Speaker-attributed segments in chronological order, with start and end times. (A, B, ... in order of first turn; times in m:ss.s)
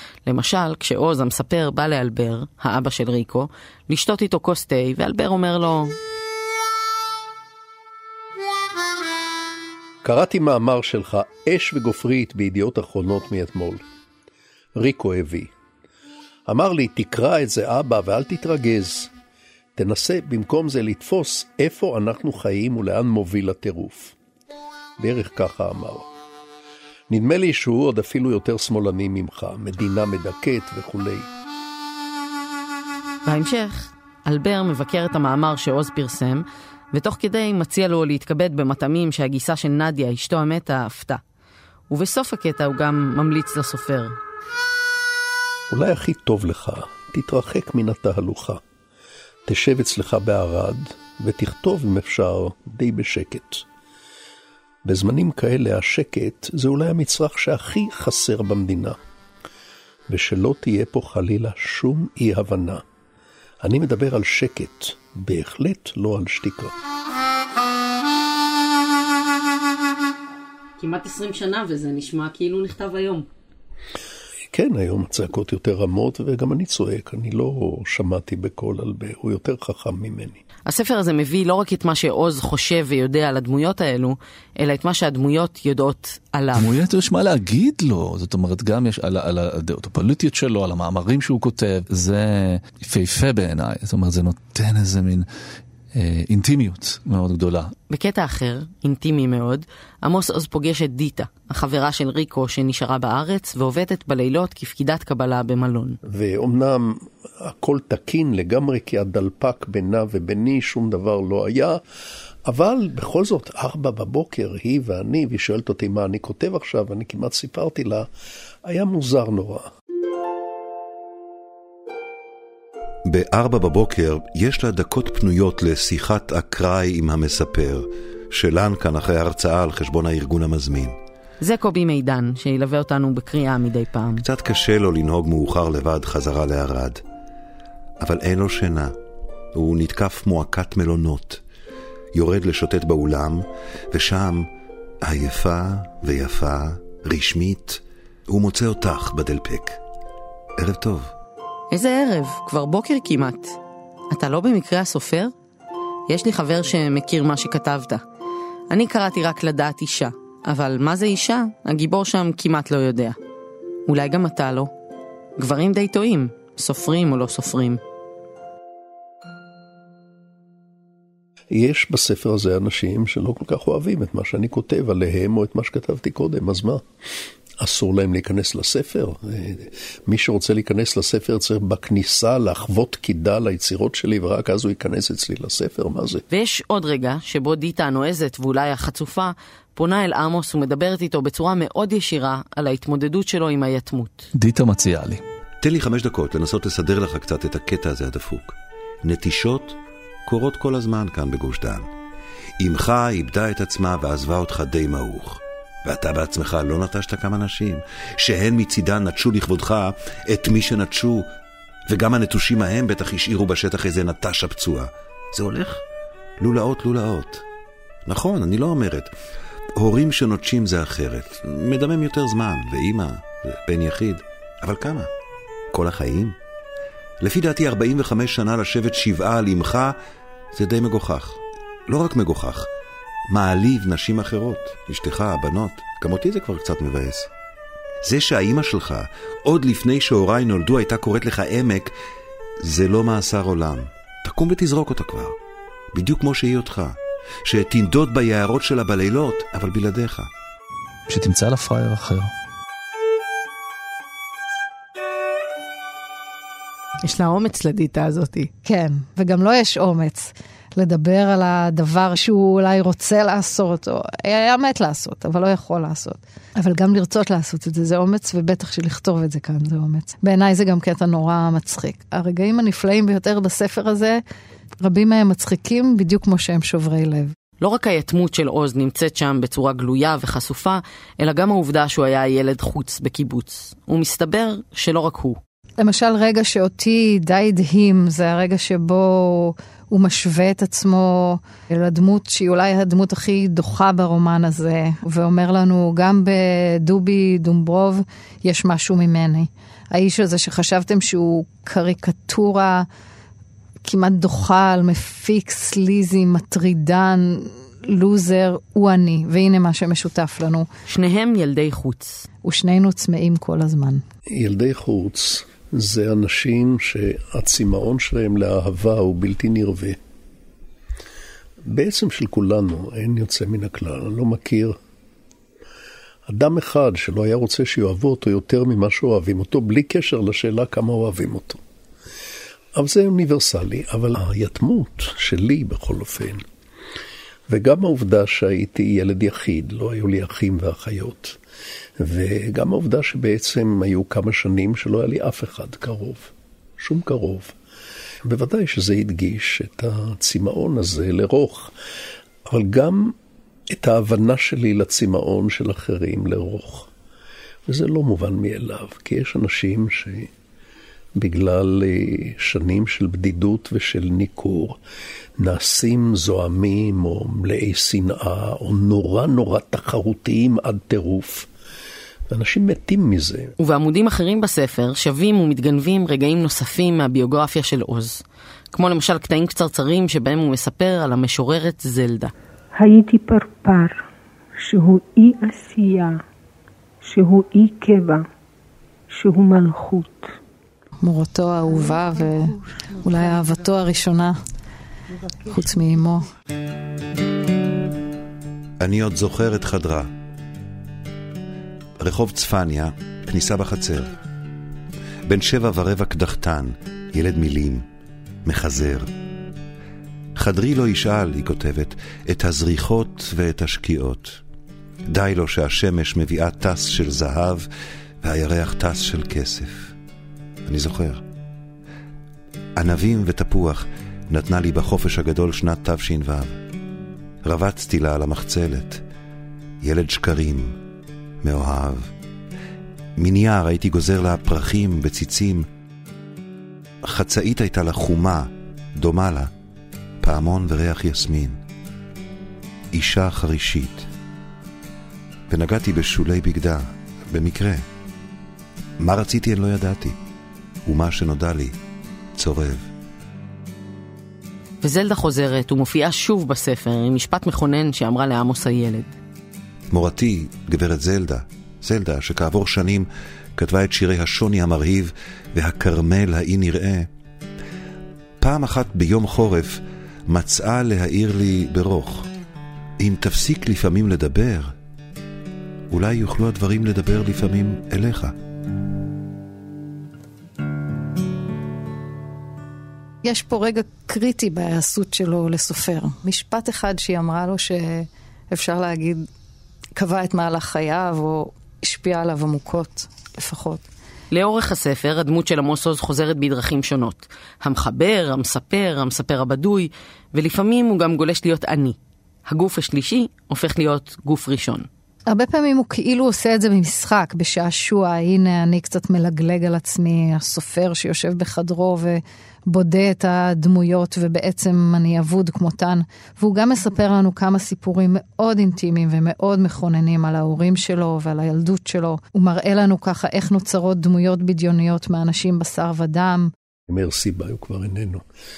0:00.2-0:05.9 A
0:10.0-0:13.8 B
0:14.7-0:15.5 B
0:16.5-0:19.1 B
0:19.7-0:24.2 B
0:25.0-0:26.1 B
0:27.1-0:31.3 B
0:33.2-0:41.2 A
0:41.9-0:44.2 A
0:45.7-0:48.6 B
0:49.4-0:53.6 B
0:54.8-0:59.0 B
1:00.1-1:02.8 B
1:03.6-1:06.7 B
1:10.8-1:13.3 A
1:14.5-1:20.4 B
1:20.6-1:26.8 A
1:26.6-1:35.2 C
1:35.9-1:37.7 C
1:37.9-1:46.0 A
1:46.0-1:51.8 B
1:52.4-1:58.1 B
1:58.6-1:59.7 B
2:03.0-2:11.0 D
2:11.4-2:14.2 A
2:14.2-2:17.0 D
2:18.0-2:18.9 D
2:19.5-2:21.4 D
2:22.1-2:24.5 D
2:25.0-2:29.8 D
2:30.6-2:31.1 D
2:31.7-2:33.6 A
2:34.1-2:35.3 A
2:36.1-2:38.0 A
2:38.7-2:43.2 A
2:43.9-2:44.7 A
2:45.4-2:47.8 A
2:51.5-2:56.8 B
2:57.6-3:06.2 B
3:06.3-3:14.3 A
3:14.3-3:15.2 C
3:15.6-3:21.9 D
3:22.6-3:31.2 D
3:31.9-3:35.8 D
3:36.4-3:37.4 D
3:38.0-3:39.1 D
3:39.7-3:45.1 D
3:45.7-3:46.4 D
3:47.2-3:50.0 D
3:50.5-3:52.7 D
3:53.3-3:57.3 D
3:58.0-4:01.9 D
4:02.6-4:05.3 D
4:05.9-4:10.3 D
4:11.1-4:12.3 C
4:17.0-4:18.5 A
4:18.6-4:34.2 E
4:34.8-4:37.3 E
4:37.6-4:45.4 A
4:45.8-5:02.8 E
5:03.8-5:10.7 E
5:10.9-5:12.3 A
5:12.4-5:14.0 E
5:14.3-5:20.0 B
5:21.6-5:24.8 B
5:26.2-5:31.6 B
5:32.7-5:36.4 B
5:37.5-5:41.4 B
5:42.0-5:47.6 B
5:48.2-5:51.7 B
5:52.4-5:53.1 B
5:53.7-5:56.9 B
5:57.7-6:00.3 B
6:01.2-6:04.8 B
6:05.4-6:11.5 B
6:12.3-6:13.5 B
6:13.6-6:22.3 A
6:22.7-6:24.0 F
6:24.6-6:26.2 F
6:27.0-6:28.2 F
6:29.1-6:30.3 F
6:31.0-6:34.4 E
6:35.4-6:36.3 E
6:38.8-6:40.1 D
6:42.0-6:44.1 D
6:45.2-6:47.8 D
6:48.4-6:49.1 D
6:50.3-6:54.4 D
6:55.1-6:57.6 D
6:58.2-6:59.9 D
7:00.6-7:01.2 D
7:02.8-7:06.5 D
7:07.4-7:09.0 D
7:09.8-7:10.7 D
7:11.4-7:12.1 D
7:13.2-7:15.7 D
7:17.0-7:19.5 D
7:20.2-7:21.6 D
7:22.9-7:24.1 D
7:25.5-7:27.8 D
7:29.0-7:30.2 D
7:30.8-7:31.8 D
7:32.3-7:32.9 D
7:34.8-7:39.1 A
7:39.9-7:47.1 D
7:48.4-7:52.3 D
7:53.0-7:54.7 D
7:55.9-7:58.3 D
8:03.2-8:09.3 E
8:10.0-8:13.8 E
8:14.3-8:24.9 A
8:25.3-8:46.5 E
8:46.9-8:48.2 B